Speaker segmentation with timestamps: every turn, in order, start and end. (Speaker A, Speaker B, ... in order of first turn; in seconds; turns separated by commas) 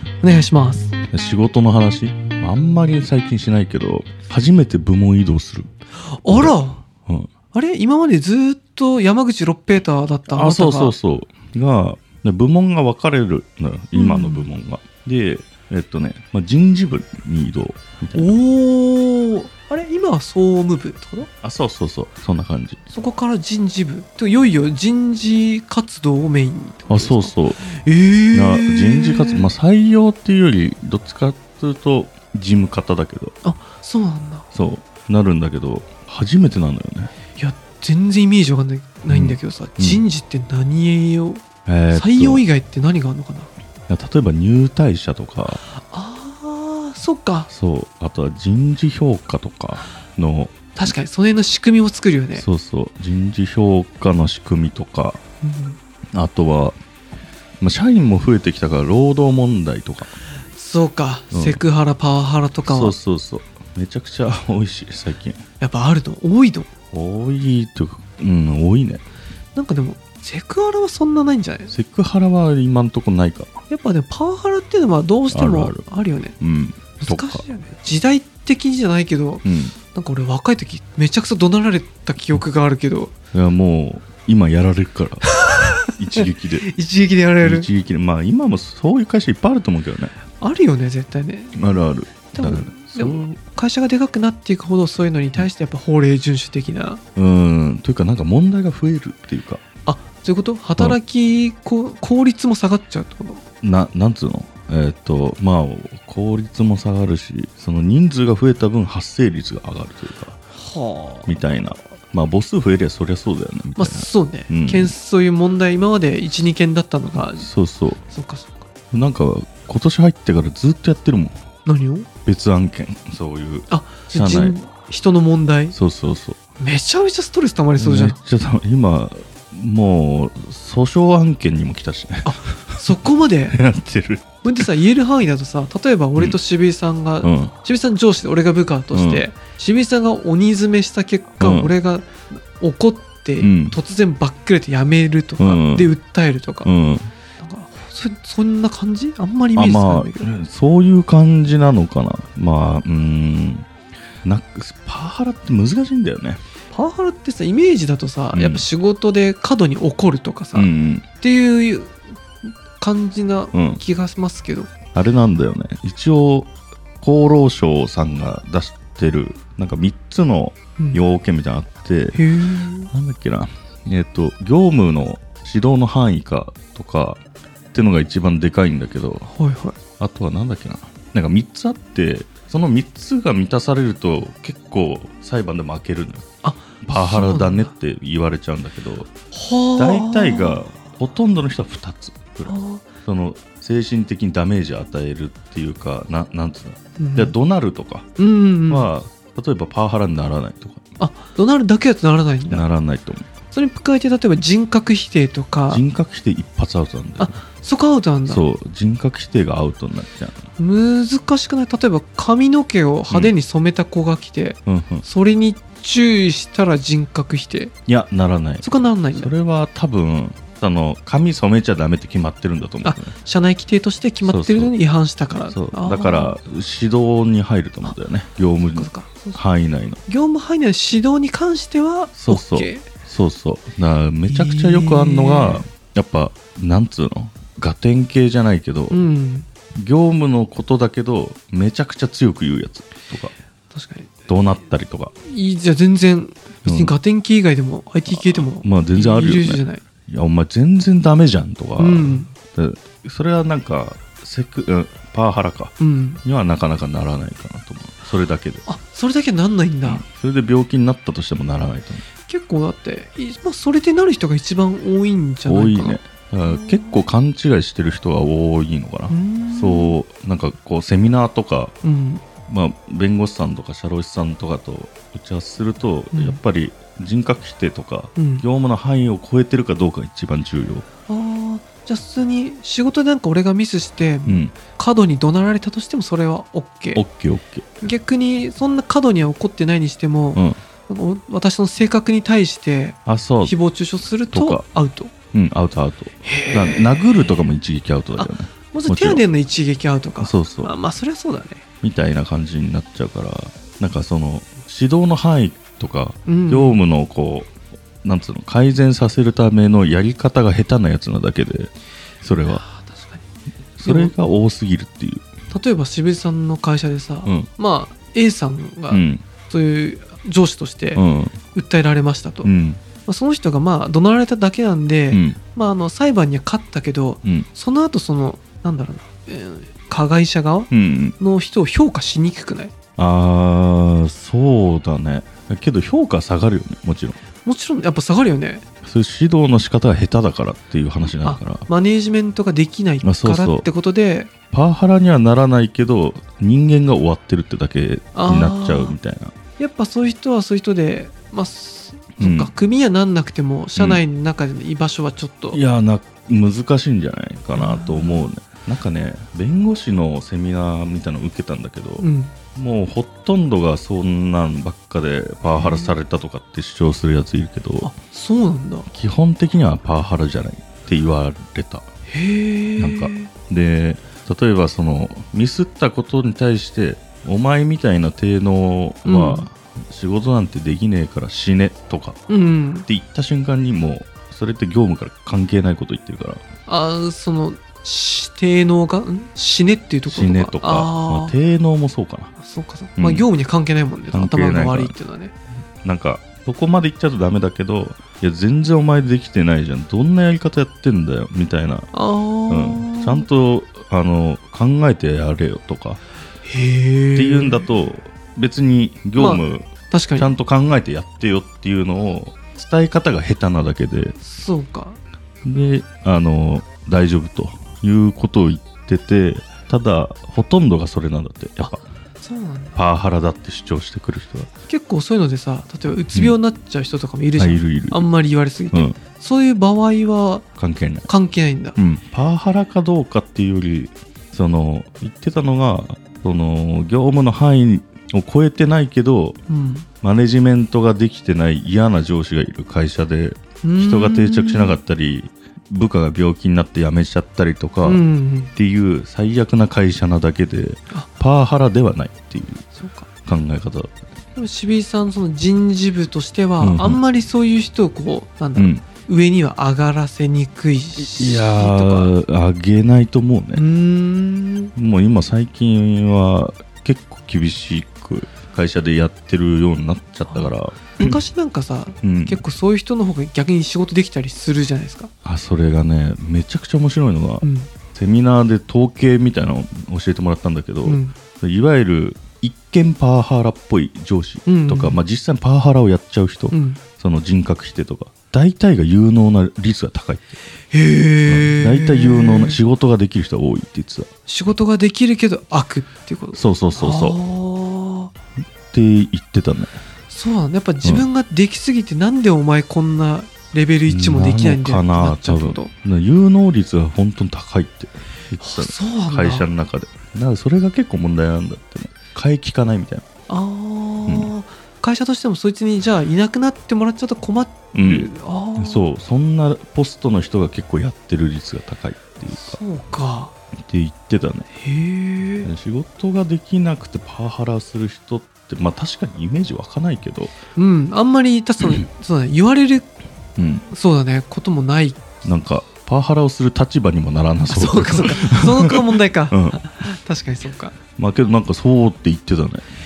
Speaker A: 0.2-0.9, Speaker B: 1.1-5.7, Speaker A: 6.1-6.8, Speaker B: 6.3-7.3, Speaker A: 7.5-10.9, Speaker B: 10.3-18.4, Speaker A: 13.9-14.5, Speaker A: 18.1-21.3, Speaker B: 21.4-22.8, Speaker A: 22.9-29.5, Speaker B: 26.9-27.6, Speaker B: 28.3-33.3, Speaker A: 33.4-34.5, Speaker B: 34.5-37.1, Speaker A: 37.4-43.5, Speaker B: 39.1-40.0, Speaker B: 41.7-42.4, Speaker B: 43.9-45.6, Speaker A: 45.8-47.5, Speaker B: 47.5-50.9, Speaker A: 50.8-52.5, Speaker B: 52.4-55.2, Speaker A: 55.4-55.8, Speaker B: 56.1-56.8, Speaker B: 57.6-60.1, Speaker A: 60.5-63.0, Speaker B: 61.3-61.6, Speaker B: 62.7-65.4, Speaker A: 65.6-66.7, Speaker B: 66.9-69.0, Speaker A: 69.5-71.7, Speaker B: 71.7-73.5, Speaker A: 73.7-76.4, Speaker B: 75.3-75.8, Speaker B: 76.4-77.5, Speaker A: 77.0-83.1, Speaker B: 79.5-79.8, Speaker B: 83.3-85.3, Speaker A: 85.2-87.7, Speaker B: 86.0-86.7, Speaker B: 87.4-90.1, Speaker A: 90.4-91.6, Speaker B: 91.5-93.3, Speaker A: 92.3-97.0, Speaker B: 97.2-99.6, Speaker A: 99.9-103.4, Speaker B: 103.6-110.4, Speaker A: 110.5-111.4, Speaker B: 111.3-114.9, Speaker A: 113.8-117.5, Speaker B: 117.3-118.0, Speaker A: 118.1-118.7, Speaker B: 118.9-121.4, Speaker A: 121.7-122.1, Speaker B: 122.2-124.6, Speaker A: 123.7-125.8, Speaker B: 125.7-126.4, Speaker A: 126.6-128.2, Speaker B: 127.8-132.9, Speaker A: 132.2-133.6, Speaker B: 133.5-134.7, Speaker A: 134.4-146.7, Speaker B: 137.2-137.5, Speaker B: 138.9-139.2, Speaker B: 141.4-141.7, Speaker B: 143.4-143.8, Speaker B: 145.4-145.9, Speaker B: 146.6-147.1, Speaker A: 147.4-150.3, Speaker B: 149.6-153.7, Speaker B: 154.2-156.4, Speaker A: 156.7-160.7, Speaker B: 158.3-158.6, Speaker B: 160.5-161.1, Speaker A: 161.2-164.7, Speaker B: 163.5-163.8, Speaker B: 164.9-172.2, Speaker A: 172.2-172.9, Speaker B: 172.9-177.2, Speaker B: 177.7-179.3, Speaker A: 179.3-179.8, Speaker B: 180.0-186.2, Speaker A: 186.4-187.7, Speaker B: 186.8-189.1, Speaker A: 189.3-190.6, Speaker B: 189.8-192.5, Speaker A: 192.5-192.9, Speaker B: 193.1-198.1, Speaker A: 197.0-197.3, Speaker A: 198.2-198.9, Speaker B: 198.7-200.8, Speaker A: 201.0-202.6, Speaker B: 202.5-203.3, Speaker A: 203.5-205.8, Speaker B: 205.7-207.4, Speaker A: 207.2-208.4, Speaker B: 208.3-210.4, Speaker A: 210.6-217.7, Speaker B: 214.7-215.1, Speaker B: 217.9-223.1, Speaker A: 218.6-219.3, Speaker A: 222.8-226.4, Speaker B: 224.2-224.7, Speaker B: 225.5-230.0, Speaker A: 228.7-229.4, Speaker A: 230.1-232.9, Speaker B: 232.1-239.0, Speaker A: 234.3-235.7, Speaker A: 238.9-239.5, Speaker B: 239.8-243.3, Speaker A: 243.7-244.3, Speaker B: 244.3-245.1, Speaker A: 245.2-249.8, Speaker B: 246.7-246.9, Speaker B: 248.1-258.6, Speaker A: 251.8-252.3, Speaker A: 255.8-256.2, Speaker A: 258.7-260.0, Speaker B: 259.8-262.1, Speaker A: 262.3-267.0, Speaker B: 265.5-271.7, Speaker A: 269.1-270.0, Speaker A: 271.8-272.2, Speaker B: 272.5-280.9, Speaker A: 276.1-276.4, Speaker A: 278.2-278.4, Speaker A: 281.1-287.0, Speaker B: 284.3-284.6, Speaker B: 286.9-287.8, Speaker A: 287.8-295.1, Speaker B: 290.4-290.6, Speaker B: 293.1-293.6, Speaker B: 294.3-294.6, Speaker B: 295.3-299.2, Speaker A: 296.2-297.4, Speaker A: 298.2-301.6, Speaker B: 300.2-300.7, Speaker B: 301.8-312.6, Speaker A: 306.3-306.8, Speaker A: 312.5-313.2, Speaker B: 313.8-315.2, Speaker A: 313.8-314.1, Speaker A: 315.5-321.0, Speaker B: 318.9-319.2, Speaker B: 320.9-321.4, Speaker A: 321.5-322.5, Speaker B: 322.4-322.8, Speaker A: 323.1-332.7, Speaker B: 325.1-325.4, Speaker B: 330.7-331.1, Speaker B: 333.0-337.2, Speaker A: 337.4-338.6, Speaker B: 338.8-341.7, Speaker A: 341.2-344.3, Speaker B: 343.0-343.7, Speaker B: 344.5-349.3, Speaker A: 348.1-349.0, Speaker A: 349.6-355.6, Speaker B: 352.2-352.5, Speaker B: 353.8-354.0, Speaker B: 355.5-367.9, Speaker A: 357.5-358.3, Speaker A: 362.0-362.3, Speaker A: 365.6-365.9, Speaker A: 367.8-368.9, Speaker B: 368.9-371.9, Speaker A: 372.1-373.3, Speaker B: 372.8-382.2, Speaker A: 379.1-379.5, Speaker A: 382.3-382.9, Speaker B: 382.9-386.4, Speaker A: 386.7-391.4, Speaker B: 390.1-392.3, Speaker A: 392.4-395.3, Speaker B: 393.0-393.3, Speaker B: 394.1-394.9, Speaker B: 395.8-401.9, Speaker A: 401.9-403.3, Speaker B: 402.5-406.0, Speaker A: 406.4-407.7, Speaker B: 407.1-414.2, Speaker A: 409.2-410.3, Speaker A: 414.2-415.0, Speaker B: 415.4-421.8, Speaker A: 421.6-422.8, Speaker B: 422.8-424.5, Speaker A: 424.7-430.5, Speaker B: 427.4-428.1, Speaker B: 428.7-429.0, Speaker B: 430.6-431.1, Speaker A: 431.1-431.8, Speaker B: 431.8-439.4, Speaker A: 439.5-439.9, Speaker B: 440.0-448.0, Speaker A: 443.6-444.8, Speaker A: 447.8-448.5, Speaker B: 448.5-452.6, Speaker A: 452.8-453.1, Speaker B: 453.2-453.9, Speaker A: 454.4-462.1, Speaker B: 456.6-457.0, Speaker B: 458.6-458.9, Speaker B: 461.0-463.6, Speaker A: 463.5-464.7, Speaker B: 464.8-471.2, Speaker A: 470.3-475.1, Speaker B: 472.0-472.4, Speaker B: 475.2-490.4, Speaker A: 477.4-477.7, Speaker A: 480.9-481.1, Speaker A: 484.5-485.0, Speaker A: 486.5-486.8, Speaker A: 490.7-492.6, Speaker B: 491.3-494.1, Speaker A: 494.3-498.1, Speaker B: 496.3-497.2, Speaker B: 498.7-499.8, Speaker A: 500.1-505.7, Speaker B: 503.9-513.0, Speaker A: 508.4-509.5, Speaker A: 513.3-518.9, Speaker B: 517.7-522.6, Speaker A: 522.3-523.4, Speaker B: 523.7-524.5, Speaker A: 524.6-525.5, Speaker B: 525.4-530.3, Speaker A: 530.6-532.9, Speaker B: 533.4-533.7, Speaker A: 533.7-535.2, Speaker B: 535.2-538.8, Speaker A: 537.5-540.8, Speaker B: 539.3-539.6, Speaker B: 541.0-542.7